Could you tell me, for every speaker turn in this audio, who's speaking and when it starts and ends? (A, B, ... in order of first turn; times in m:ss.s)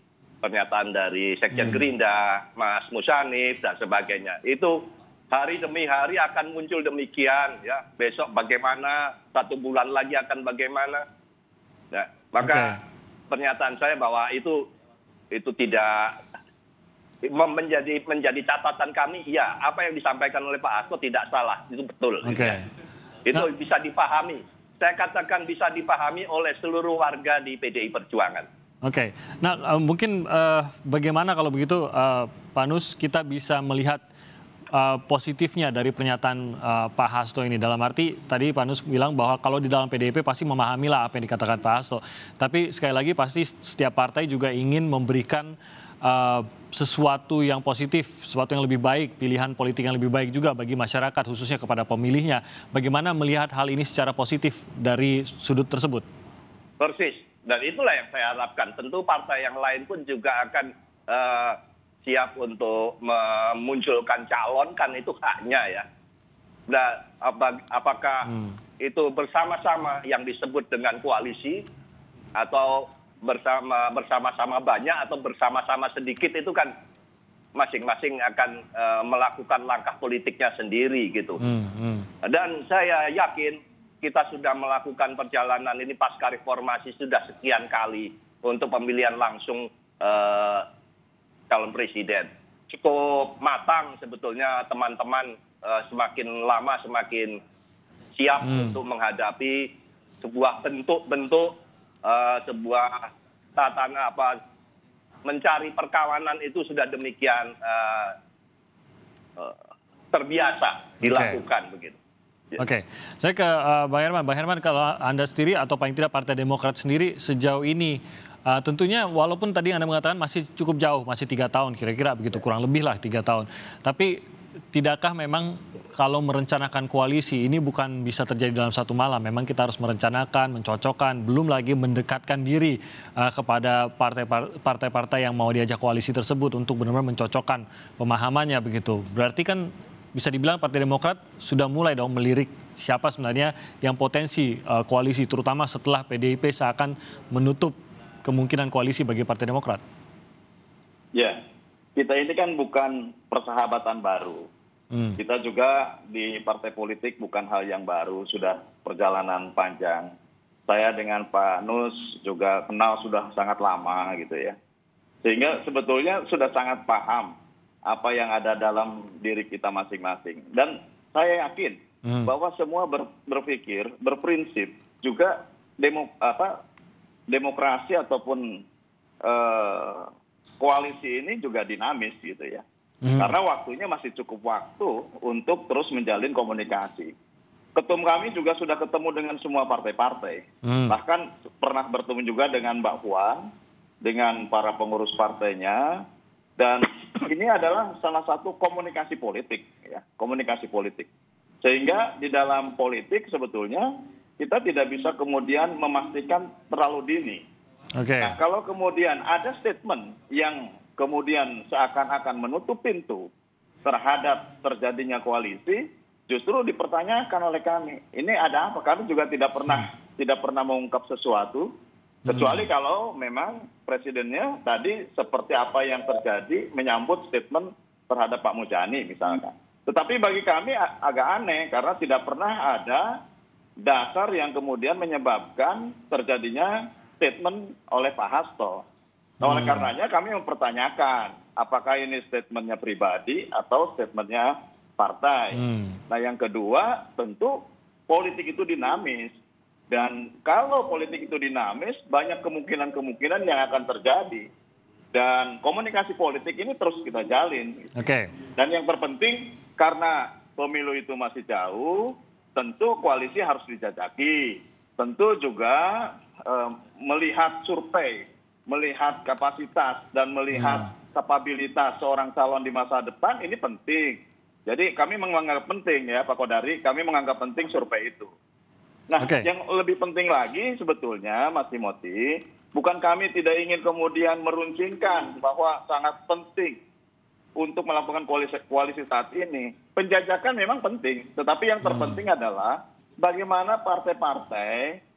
0:00.4-0:11.0 A
0:01.5-0:01.8 B
0:11.9-0:12.8 A
0:12.4-0:12.8 B
0:13.3-0:14.7 A
0:15.3-0:16.2 A
0:17.2-0:22.6 A
0:22.2-0:22.6 B
0:23.3-0:28.5 A
0:28.8-0:34.0 B
0:34.7-0:56.0 B
0:56.8-1:05.9 A
1:06.7-1:11.6 A
1:08.3-1:08.5 B
1:12.4-1:16.7 A
1:17.6-1:21.4 A
1:21.4-1:22.1 B
1:22.2-1:30.7 A
1:31.5-1:37.4 A
1:38.2-1:44.4 A
1:38.4-1:38.8 B
1:45.2-1:48.2 A
1:50.1-1:52.0 A
1:51.0-1:51.4 B
1:52.6-2:04.2 B
2:04.7-2:29.8 B
2:31.2-2:31.4 C
2:32.0-2:34.5 C
2:34.9-2:35.2 B
2:35.2-2:40.1 C
2:40.7-2:44.6 C
2:45.2-2:47.4 C
2:47.9-2:56.6 C
2:52.0-2:52.3 B
2:57.3-2:58.6 C
2:59.2-3:00.1 C
3:00.6-3:02.6 C
3:03.0-3:03.3 B
3:03.2-3:07.1 C
3:07.8-3:13.5 C
3:10.6-3:11.0 B
3:14.0-3:16.0 C
3:16.6-3:21.1 C
3:21.6-3:27.4 C
3:28.0-3:28.4 B
3:28.2-3:33.3 C
3:33.8-3:41.7 C
3:42.3-3:53.1 C
3:42.3-3:42.7 B
3:53.8-3:58.8 C
3:59.4-3:59.9 B
3:59.4-4:09.4 C
4:05.6-4:06.0 B
4:09.9-4:14.5 C
4:15.1-4:17.9 C
4:18.0-4:18.3 B
4:18.6-4:38.3 C
4:30.5-4:30.9 B
4:39.1-4:46.8 C
4:39.2-4:39.5 B
4:47.6-4:55.0 C
4:51.8-4:52.2 B